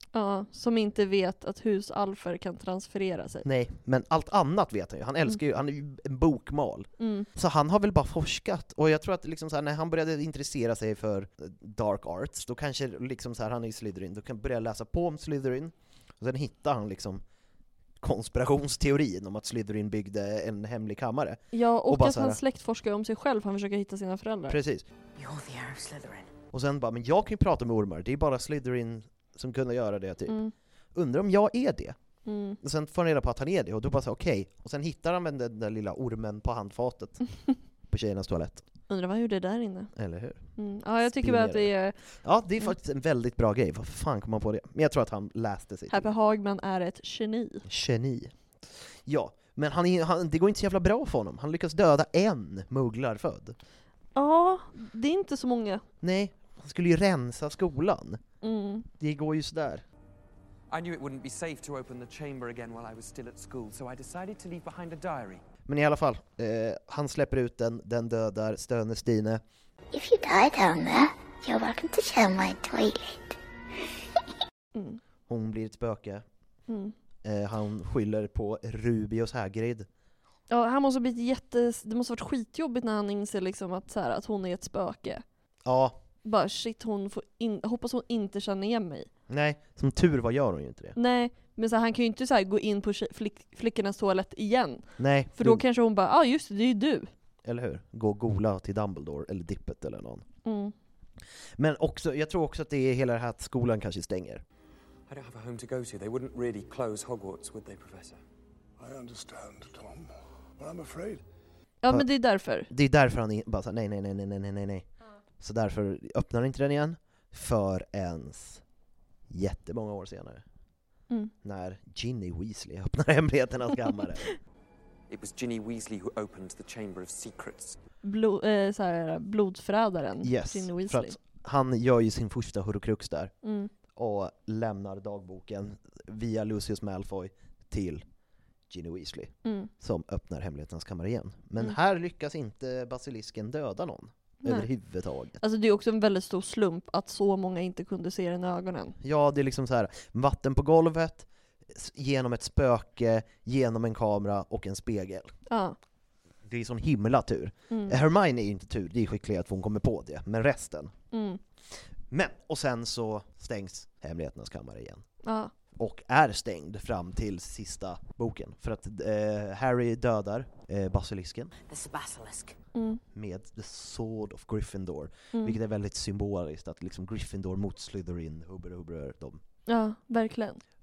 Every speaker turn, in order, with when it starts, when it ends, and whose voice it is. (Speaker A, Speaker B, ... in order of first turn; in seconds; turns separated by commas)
Speaker A: 0.1-3.4, Speaker B: 3.4-17.2, Speaker A: 7.0-7.3, Speaker B: 18.0-22.4, Speaker A: 21.5-24.6, Speaker B: 24.5-24.9, Speaker C: 25.1-26.3, Speaker B: 26.5-30.4, Speaker A: 30.3-30.5, Speaker B: 30.9-31.9, Speaker A: 32.2-32.6, Speaker B: 32.6-37.2, Speaker B: 37.9-38.6, Speaker A: 38.9-39.9, Speaker B: 39.9-40.5, Speaker A: 40.5-42.0, Speaker B: 41.0-46.1, Speaker A: 45.9-47.6, Speaker B: 47.6-53.6, Speaker A: 54.1-55.8, Speaker B: 56.0-58.2, Speaker A: 58.4-58.9, Speaker B: 59.0-59.9, Speaker D: 60.7-65.4, Speaker B: 65.7-69.4, Speaker E: 69.9-73.4, Speaker A: 74.8-75.0, Speaker B: 75.3-76.2, Speaker A: 76.7-76.9, Speaker B: 77.2-79.9, Speaker A: 80.5-85.2, Speaker B: 85.6-86.0, Speaker A: 86.2-89.1, Speaker B: 89.3-91.0, Speaker A: 91.0-97.1, Speaker B: 95.0-95.6, Speaker B: 97.4-100.2, Speaker A: 100.4-100.7, Speaker B: 101.6-104.4, Speaker D: 105.1-108.2, Speaker F: 108.8-111.2, Speaker A: 111.8-112.7, Speaker B: 112.7-114.9, Speaker B: 115.4-118.6, Speaker B: 119.3-120.4, Speaker B: 121.4-124.3, Speaker D: 125.1-127.8, Speaker A: 128.0-131.1, Speaker B: 130.2-133.3, Speaker A: 133.4-133.7, Speaker B: 133.9-138.0, Speaker B: 138.7-145.4, Speaker A: 139.4-139.7, Speaker A: 145.4-148.9, Speaker B: 149.0-155.3, Speaker A: 155.5-155.8, Speaker B: 156.4-160.9, Speaker A: 157.7-158.0, Speaker A: 161.1-161.4, Speaker B: 162.1-165.0, Speaker A: 165.2-165.5, Speaker B: 165.8-171.5, Speaker C: 171.7-172.5, Speaker A: 172.8-173.0, Speaker B: 173.1-179.4, Speaker A: 179.7-180.6